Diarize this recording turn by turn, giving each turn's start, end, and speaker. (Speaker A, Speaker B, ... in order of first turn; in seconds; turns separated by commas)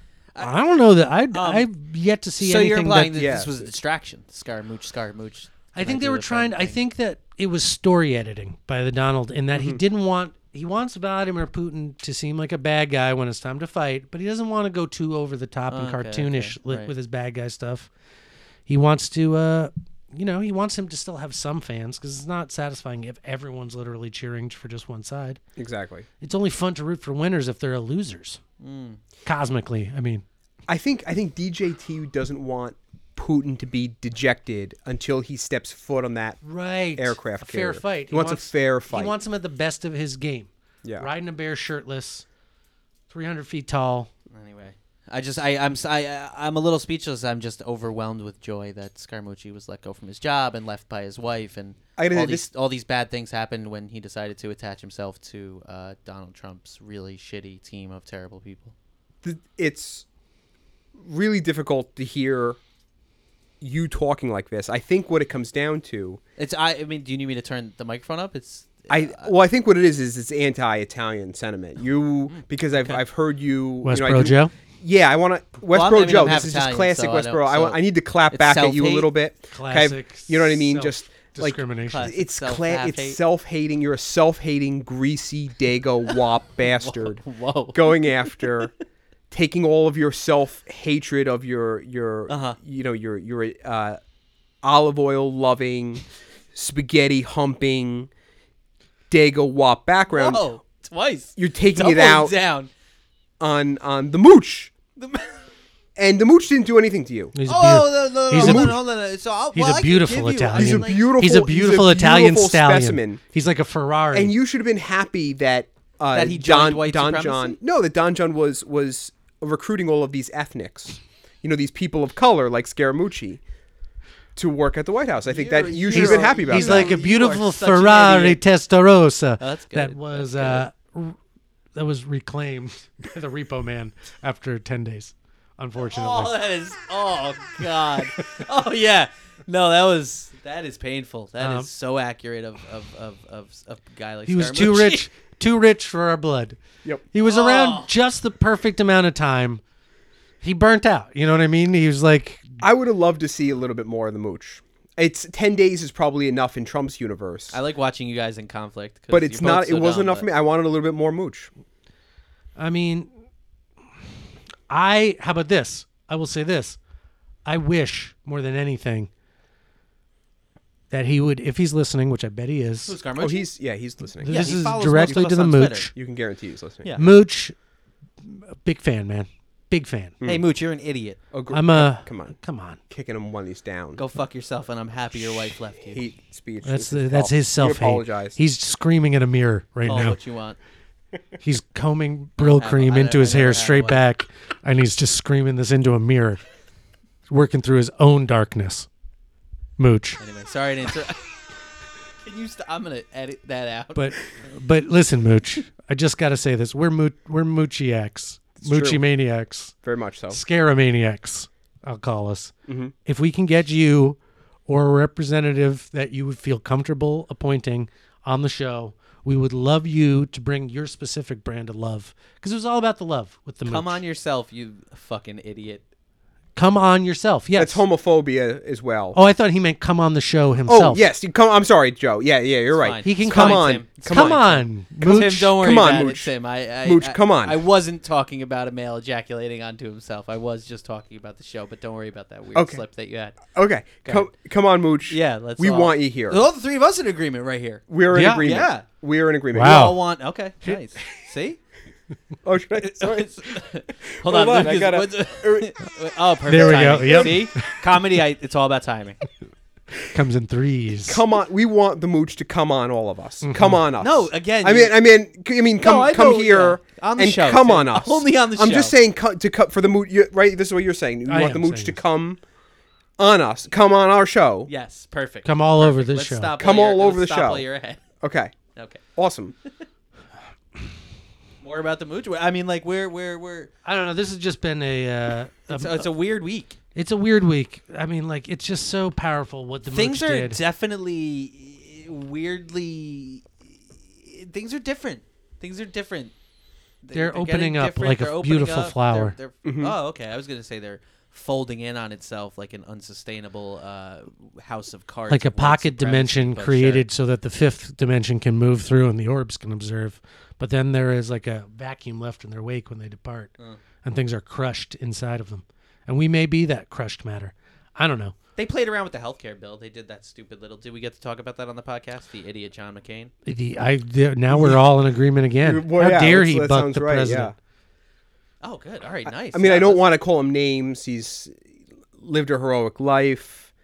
Speaker A: 0.3-0.7, Speaker B: 0.4-3.1, Speaker A: 1.3-1.7, Speaker A: 2.4-6.8, Speaker C: 3.1-3.7, Speaker B: 5.8-17.9, Speaker C: 9.5-9.8, Speaker A: 15.7-16.9, Speaker B: 18.7-25.4, Speaker C: 25.6-26.1, Speaker B: 26.2-28.4, Speaker A: 28.6-29.0, Speaker B: 29.2-30.2, Speaker C: 30.7-36.4, Speaker B: 36.4-42.2, Speaker C: 37.0-39.1, Speaker C: 40.8-41.1, Speaker B: 43.1-44.1, Speaker A: 44.3-58.7, Speaker C: 52.0-52.5, Speaker C: 59.2-60.1, Speaker C: 61.0-62.6, Speaker C: 63.6-66.2, Speaker A: 66.4-69.3, Speaker C: 68.9-87.2, Speaker A: 72.3-73.0, Speaker B: 73.8-74.5, Speaker A: 75.7-79.1, Speaker B: 79.5-82.1, Speaker A: 81.9-83.2, Speaker A: 86.6-88.3, Speaker C: 87.7-88.7, Speaker C: 89.3-94.0, Speaker A: 92.3-92.6, Speaker C: 94.6-98.1, Speaker C: 99.1-100.5, Speaker A: 100.1-102.7, Speaker C: 101.4-102.3, Speaker C: 103.4-104.7, Speaker A: 105.0-105.4, Speaker C: 106.0-107.3, Speaker B: 107.3-108.8, Speaker A: 107.5-111.1, Speaker C: 108.3-108.8, Speaker B: 109.5-114.3, Speaker C: 110.5-113.2, Speaker C: 114.1-123.4, Speaker A: 116.1-117.6, Speaker C: 124.4-127.0, Speaker A: 125.2-128.4, Speaker B: 125.9-131.2, Speaker A: 129.4-130.6, Speaker B: 131.8-136.3, Speaker A: 135.8-145.1, Speaker B: 141.4-141.7, Speaker B: 144.3-146.6, Speaker B: 147.1-149.6, Speaker A: 147.2-147.9, Speaker B: 150.4-152.6, Speaker C: 152.6-157.6, Speaker A: 157.5-160.3, Speaker C: 159.1-161.5, Speaker B: 162.6-163.1, Speaker B: 164.7-166.8, Speaker B: 167.4-169.1, Speaker B: 170.9-172.9, Speaker A: 172.9-173.5, Speaker C: 173.2-175.3, Speaker B: 174.2-175.9, Speaker A: 174.3-175.9, Speaker C: 175.9-176.9, Speaker A: 176.8-177.1, Speaker B: 177.0-177.6, Speaker B: 178.2-180.2, Speaker A: 180.2-181.2, Speaker C: 181.3-182.4, Speaker B: 181.5-182.8, Speaker C: 182.9-184.0, Speaker A: 184.0-186.0, Speaker C: 185.8-188.4, Speaker B: 186.6-190.2, Speaker A: 189.9-190.6, Speaker B: 191.4-196.4, Speaker A: 192.4-194.0, Speaker B: 197.3-198.9, Speaker B: 199.8-200.2, Speaker A: 200.2-201.3, Speaker A: 202.2-204.3, Speaker B: 203.9-209.8, Speaker C: 208.6-209.0, Speaker C: 209.8-210.4, Speaker B: 210.3-212.5, Speaker C: 212.7-212.9, Speaker B: 213.1-224.0, Speaker A: 223.6-225.8, Speaker B: 226.6-227.8, Speaker C: 227.6-229.2, Speaker B: 229.1-231.0, Speaker C: 230.7-236.3, Speaker A: 232.7-244.3, Speaker B: 233.0-235.6, Speaker C: 236.8-237.6, Speaker C: 242.6-242.8, Speaker C: 243.5-246.4, Speaker A: 245.1-248.9, Speaker C: 247.9-249.9, Speaker B: 248.1-248.5, Speaker B: 249.5-250.1, Speaker A: 249.6-251.6, Speaker C: 252.4-253.5, Speaker A: 252.8-259.2, Speaker C: 254.1-255.7, Speaker B: 256.5-257.8, Speaker C: 256.9-257.4, Speaker B: 260.1-261.2, Speaker C: 261.1-272.4, Speaker B: 263.4-263.8, Speaker A: 264.0-265.0, Speaker A: 265.8-268.9, Speaker B: 271.3-272.0, Speaker C: 273.2-274.7, Speaker A: 274.7-278.0, Speaker B: 275.4-276.5, Speaker C: 276.6-277.6, Speaker C: 278.2-278.6, Speaker A: 278.7-279.0, Speaker C: 279.1-279.5, Speaker A: 281.6-283.7, Speaker B: 283.9-286.1, Speaker A: 285.7-286.8, Speaker B: 286.9-290.6, Speaker A: 289.9-293.5, Speaker A: 294.2-296.3, Speaker A: 297.0-307.1, Speaker B: 297.1-299.4, Speaker C: 299.6-299.9, Speaker B: 305.3-313.5, Speaker B: 314.0-318.4, Speaker A: 318.6-323.3, Speaker B: 323.4-327.5, Speaker C: 324.5-324.9, Speaker C: 325.6-327.6, Speaker A: 328.6-330.0, Speaker C: 329.3-331.6, Speaker C: 332.1-333.7